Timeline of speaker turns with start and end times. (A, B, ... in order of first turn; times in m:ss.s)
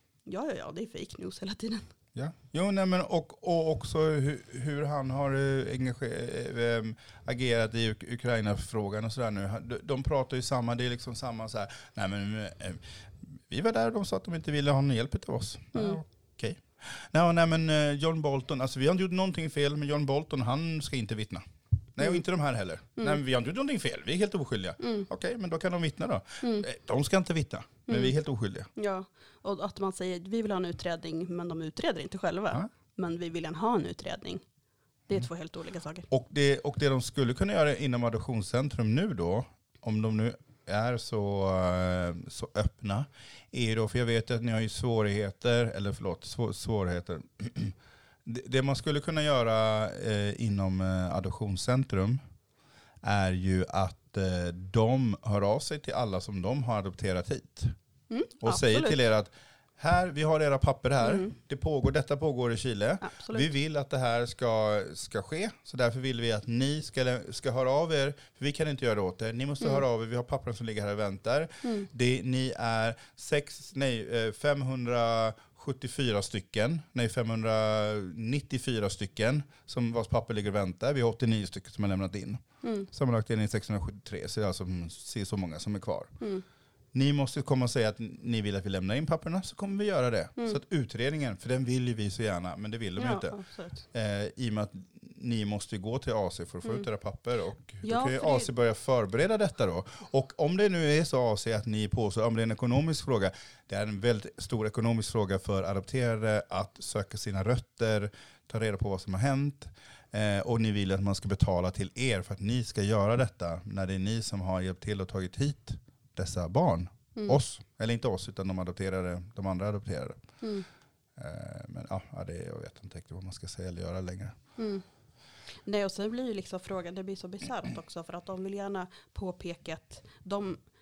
0:00.3-0:01.9 A
0:02.2-0:28.7 B
0:15.7-0:16.0 A
0:24.8-0:25.1 A
0:26.4-0:26.7 A
0:27.9-0:28.2 A
0:28.8-0:34.4 A
0:35.1-0:36.1 A
0:36.1-0:52.2 B
0:53.0-0:57.8 B
0:58.1-0:59.0 A
0:58.4-1:26.1 B
1:01.0-1:01.3 A
1:03.0-1:03.5 A
1:11.6-1:11.9 A
1:22.6-1:22.9 A
1:26.2-1:26.4 A
1:26.9-1:33.4 B
1:33.0-1:33.8 A
1:33.9-2:00.3 B
1:37.8-1:38.5 A
2:00.4-2:00.7 A
2:01.2-2:04.4 B
2:04.6-2:04.8 A
2:05.5-2:10.6 A